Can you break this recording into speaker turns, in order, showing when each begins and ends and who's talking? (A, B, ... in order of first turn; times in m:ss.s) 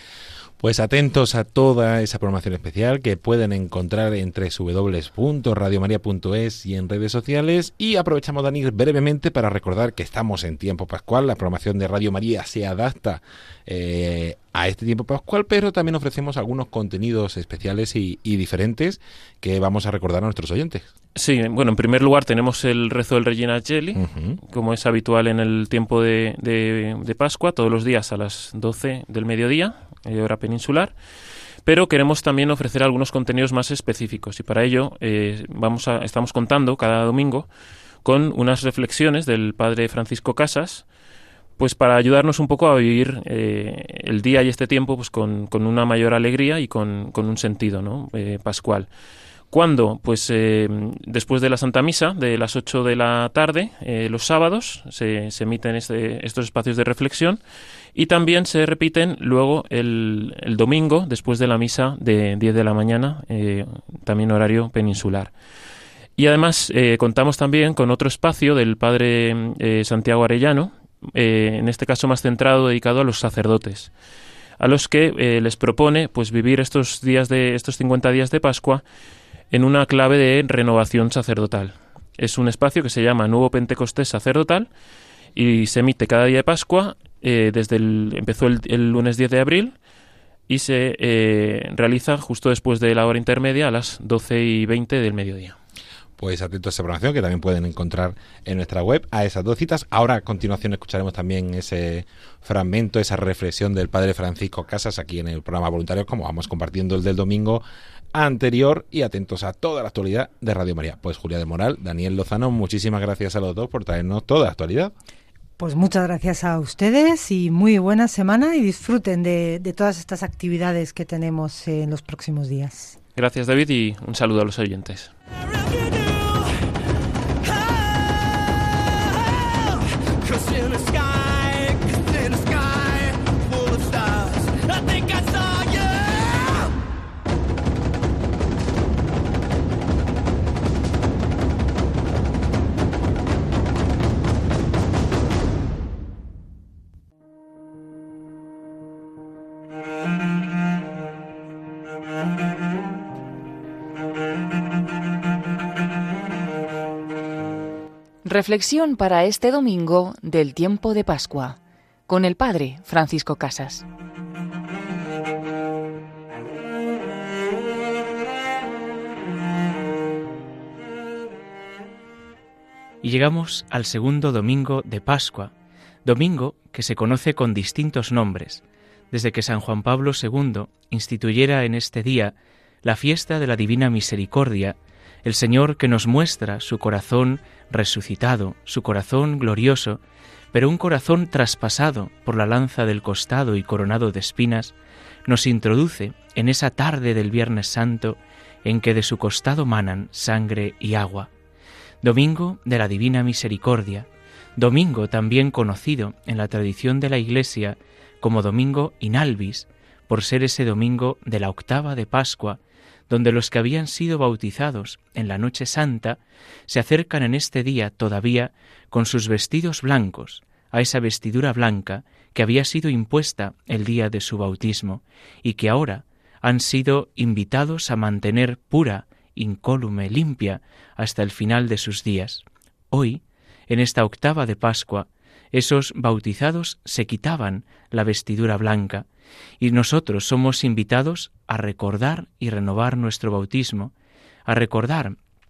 0:00.6-0:20.9 A
0:21.2-0:30.9 B
0:23.9-0:24.4 A
0:31.6-0:37.5 B
0:38.0-0:40.8 B
0:41.6-0:48.9 B
0:49.5-0:57.4 B
0:57.9-1:05.3 B
1:06.2-1:13.9 B
1:14.6-1:18.8 B
1:19.5-1:24.7 B
1:25.3-1:29.7 B
1:30.5-1:35.6 B
1:36.2-1:47.6 A
1:48.1-1:54.9 A
1:55.6-2:03.0 C
2:03.2-2:05.1 B
2:05.3-2:06.8 D
2:07.4-2:16.7 D
2:38.2-2:43.8 E
2:53.0-2:55.5 F
2:56.0-3:10.0 F
3:10.5-3:14.7 F
3:15.2-3:21.3 F
3:22.0-3:59.1 F
3:59.6-4:03.9 F
4:04.4-4:05.2 F